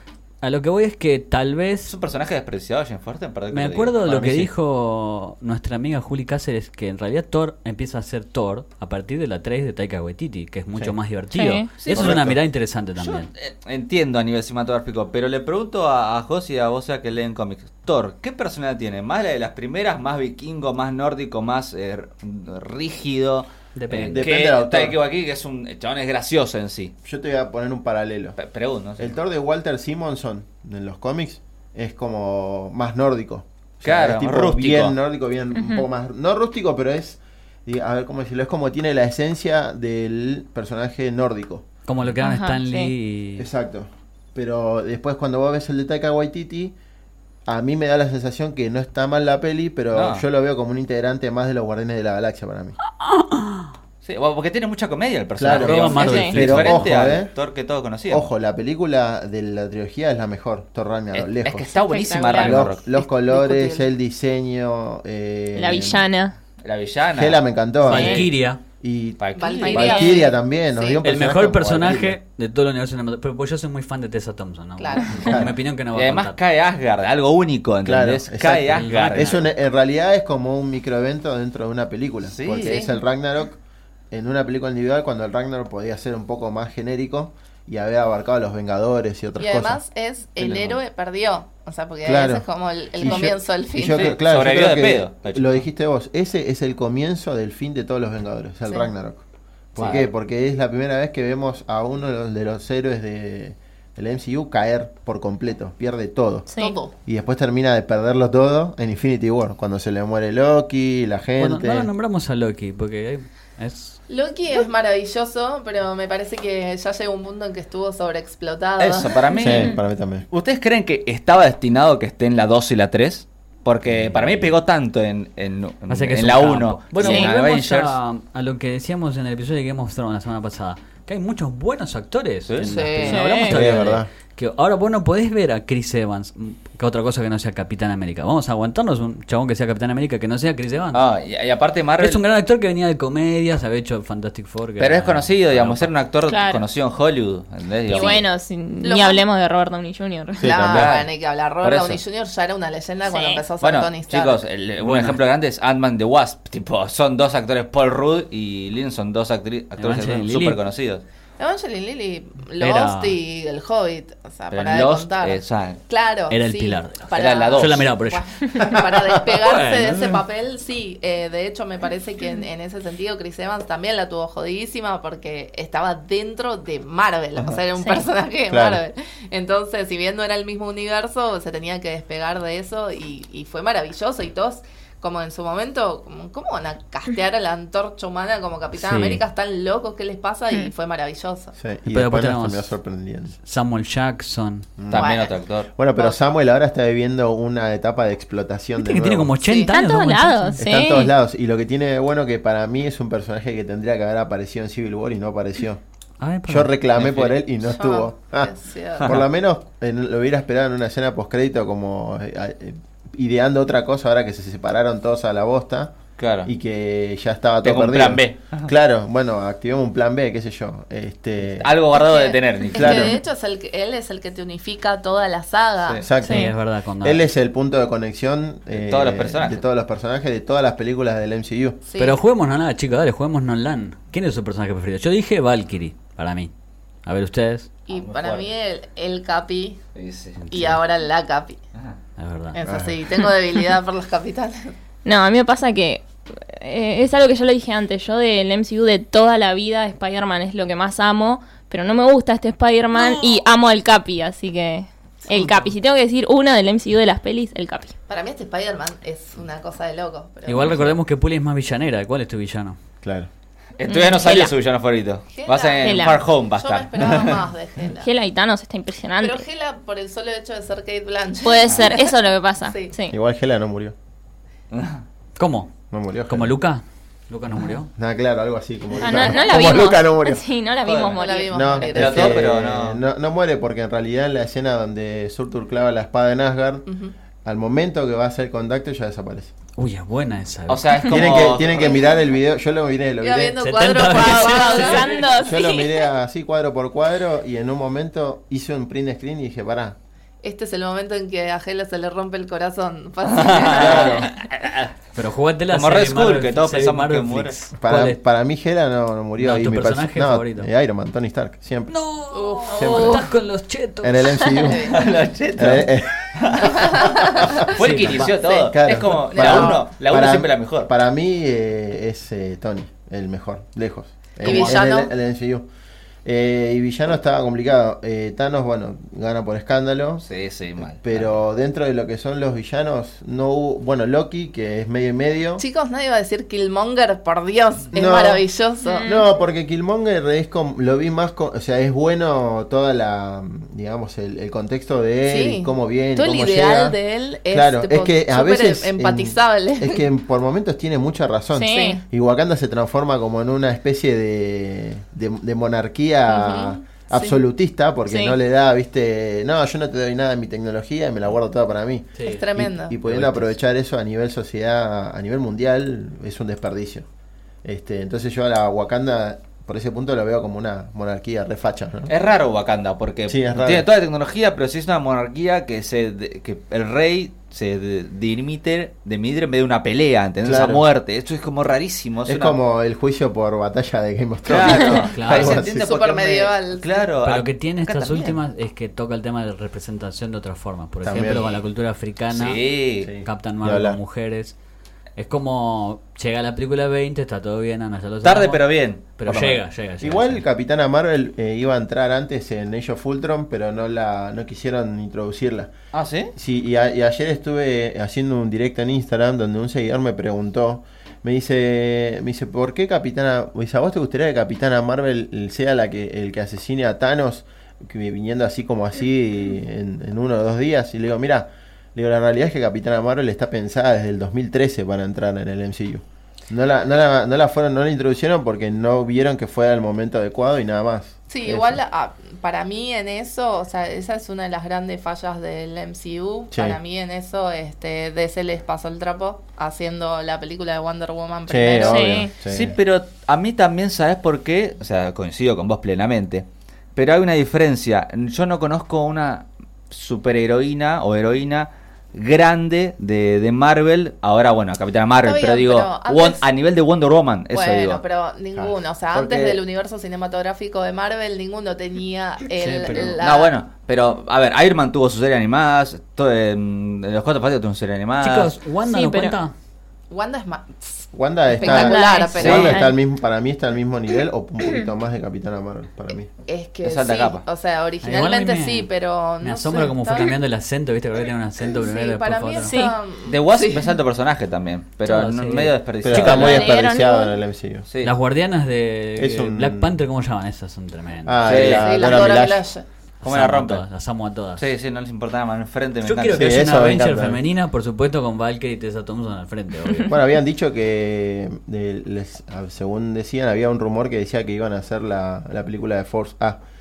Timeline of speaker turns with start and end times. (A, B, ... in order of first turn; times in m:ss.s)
0:00.4-0:01.9 A
0:01.9-0:04.5 B
0:03.5-0:13.3 A
0:11.3-0:11.7 C
0:11.8-0:12.3 B
0:11.9-0:12.4 D
0:13.0-0:26.9 B
0:23.7-0:24.3 A
0:24.0-0:25.0 D
0:27.0-0:28.4 D
0:28.4-0:29.1 B
0:29.0-0:41.6 D
0:33.8-0:35.0 B
0:35.5-0:35.8 C
0:41.9-0:43.5 A
0:42.2-0:42.9 C
0:43.4-0:46.7 D
0:47.4-0:52.8 D
0:49.9-0:50.2 B
0:52.8-0:53.7 A
0:54.0-0:58.3 B
0:55.4-0:57.3 D
0:55.5-0:56.9 A
0:56.0-0:56.4 C
0:58.1-1:01.7 D
1:01.1-1:02.8 B
1:01.8-1:02.6 C
1:02.3-1:06.0 D
1:02.3-1:03.9 E
1:05.6-1:06.3 C
1:06.6-1:08.2 B
1:07.2-1:12.2 D
1:07.8-1:08.6 A
1:09.2-1:10.2 B
1:09.4-1:11.0 E
1:09.7-1:10.2 C
1:11.0-1:16.4 A
1:14.8-1:15.4 E
1:15.1-1:15.5 D
1:15.9-1:19.4 B
1:17.8-1:23.6 D
1:18.7-1:19.4 A
1:22.3-1:22.8 B
1:22.6-1:22.9 E
1:24.1-1:29.8 D
1:29.4-1:34.1 E
1:30.4-1:30.8 B
1:32.0-1:39.2 D
1:33.9-1:35.6 B
1:39.7-1:51.9 D
1:46.5-1:46.8 C
1:46.6-1:46.9 E
1:51.4-1:54.0 A
1:54.1-1:59.2 E
1:58.8-1:59.8 B
1:59.4-1:59.8 C
1:59.4-2:00.2 D
2:00.3-2:08.0 B
2:03.9-2:04.5 D
2:05.9-2:21.0 A
2:07.0-2:07.3 C
2:12.5-2:13.1 B
2:12.6-2:13.2 E
2:13.0-2:13.6 C
2:13.4-2:14.1 D
2:20.9-2:22.2 B
2:22.0-2:25.9 A
2:24.8-2:28.2 B
2:26.3-2:26.6 C
2:27.9-2:28.2 A
2:27.9-2:30.5 C
2:28.8-2:29.2 E
2:30.4-2:31.0 D
2:30.4-2:34.4 E
2:30.7-2:31.1 B
2:31.6-2:32.0 B
2:33.0-2:33.4 C
2:33.6-2:41.0 B
2:34.8-2:35.2 A
2:39.8-2:40.6 A
2:41.4-3:11.5 E
2:42.6-2:43.2 A
2:44.5-2:45.8 B
2:46.3-2:48.3 A
2:47.1-2:47.9 B
2:48.6-2:49.0 D
2:49.2-2:50.2 A
2:57.8-2:58.0 C
2:58.5-2:58.8 D
3:08.8-3:09.2 A
3:11.6-3:13.3 D
3:11.9-3:12.7 A
3:13.4-3:14.7 A
3:14.8-3:15.1 D
3:14.9-3:15.7 B
3:14.9-3:15.4 E
3:15.7-3:19.4 D
3:18.8-3:20.6 A
3:19.4-3:19.7 E
3:19.7-3:21.1 C
3:20.6-3:25.8 D
3:26.2-3:26.7 A
3:26.5-3:41.7 D
3:27.0-3:27.4 B
3:27.6-3:29.1 E
3:36.2-3:36.5 B
3:37.6-3:38.7 B
3:41.6-3:43.2 B
3:41.9-3:46.1 E
3:42.7-3:43.2 D
3:45.8-3:51.8 D
3:46.2-3:46.5 C
3:46.2-3:47.2 A
3:48.7-3:49.6 B
3:51.9-3:52.2 E
3:52.0-3:56.5 A
3:57.0-3:57.7 A
3:57.9-3:59.8 E
3:57.9-3:58.5 B
3:59.9-4:00.4 B
4:00.4-4:00.8 A
4:00.5-4:01.6 E
4:02.2-4:02.6 A
4:02.5-4:04.7 E
4:02.6-4:03.0 D
4:05.0-4:17.9 C
4:15.3-4:15.7 E
4:18.1-4:20.8 E
4:20.4-4:22.8 A
4:23.0-4:23.3 D
4:23.8-4:27.4 B
4:23.9-4:24.5 C
4:25.3-4:28.1 E
4:25.8-4:26.2 C
4:27.9-4:29.4 C
4:29.2-4:32.9 E
4:31.4-4:33.1 C
4:33.1-4:33.9 D
4:34.7-4:35.0 B
4:35.4-4:35.7 A
4:35.9-4:36.5 D
4:36.3-4:37.9 A
4:37.9-4:40.4 D
4:39.0-4:41.8 C
4:40.8-4:41.2 B
4:41.2-4:42.4 E
4:41.5-4:46.9 D
4:41.8-4:43.0 B
4:46.9-4:47.1 E
4:47.4-4:49.5 D
4:49.8-4:51.5 A
4:50.7-4:51.9 B
4:51.1-4:54.1 D
4:51.6-4:52.1 E
4:53.2-4:55.3 E
4:53.6-4:55.2 A
4:54.1-4:56.0 C
4:55.4-5:00.0 D
5:00.4-5:04.2 E
5:03.2-5:04.9 B
5:03.7-5:04.2 D
5:05.1-5:08.2 A
5:05.7-5:07.6 B
5:07.8-5:11.9 D
5:09.4-5:10.7 A
5:11.9-5:14.7 A
5:12.3-5:13.2 E
5:12.7-5:13.3 D
5:14.0-5:15.0 D
5:14.6-5:15.0 E
5:14.9-5:20.9 B
5:15.6-5:16.8 D
5:16.7-5:17.6 E
5:17.4-5:17.7 D
5:17.7-5:18.3 A
5:18.3-5:19.8 E
5:18.7-5:25.6 D
5:24.4-5:25.1 E
5:24.4-5:24.8 B
5:26.2-5:30.2 D
5:30.2-5:31.4 B
5:30.8-5:35.6 D
5:35.6-5:39.1 E
5:37.9-5:38.4 D
5:38.8-5:39.2 C
5:39.0-5:47.0 D
5:45.2-5:50.0 E
5:47.5-6:07.0 D
5:51.5-5:52.0 C
5:51.6-5:52.0 E
5:56.3-5:57.4 E
5:58.1-5:58.4 C
6:02.2-6:02.5 A
6:02.2-6:03.0 E
6:03.0-6:03.5 A
6:07.6-6:12.1 D
6:12.1-6:22.6 B
6:13.3-6:13.8 D
6:20.4-6:20.8 D
6:22.2-6:25.9 D
6:24.4-6:28.4 B
6:24.9-6:25.6 A
6:25.7-6:27.0 E
6:27.2-6:32.6 A
6:31.0-6:31.6 D
6:32.3-6:33.1 B
6:33.0-6:34.0 D
6:33.2-6:34.5 A
6:35.2-6:38.6 A
6:38.2-6:39.6 B
6:39.2-6:40.4 A
6:40.0-6:45.7 D
6:45.9-6:46.3 B
6:46.3-7:11.8 D
7:11.3-7:22.2 E
7:16.5-7:16.8 D
7:21.5-7:22.8 D
7:21.8-7:22.3 C
7:22.4-7:38.0 B
7:35.2-7:36.4 E
7:37.5-7:43.5 E
7:38.5-7:39.6 D
7:42.6-7:43.2 A
7:43.2-7:48.6 B
7:48.2-7:49.5 A
7:48.8-7:49.3 C
7:50.1-7:52.9 E
7:51.1-7:56.3 D
7:51.6-7:52.9 C
7:52.3-7:52.8 B
7:56.4-8:00.4 E
7:56.8-7:57.4 B
7:58.0-7:58.9 A
7:59.4-8:02.8 A
8:01.7-8:03.9 E
8:02.6-8:03.0 C
8:03.2-8:06.7 B
8:05.0-8:06.7 A
8:06.0-8:07.8 D
8:06.3-8:07.4 C
8:07.9-8:08.1 B
8:08.0-8:11.5 A
8:09.2-8:10.0 D
8:11.2-8:12.6 D
8:11.4-8:12.3 B
8:11.6-8:12.8 E
8:13.2-8:14.7 A
8:13.2-8:13.8 B
8:14.6-8:16.6 B
8:16.0-8:20.1 A
8:16.3-8:17.4 D
8:20.0-8:26.6 D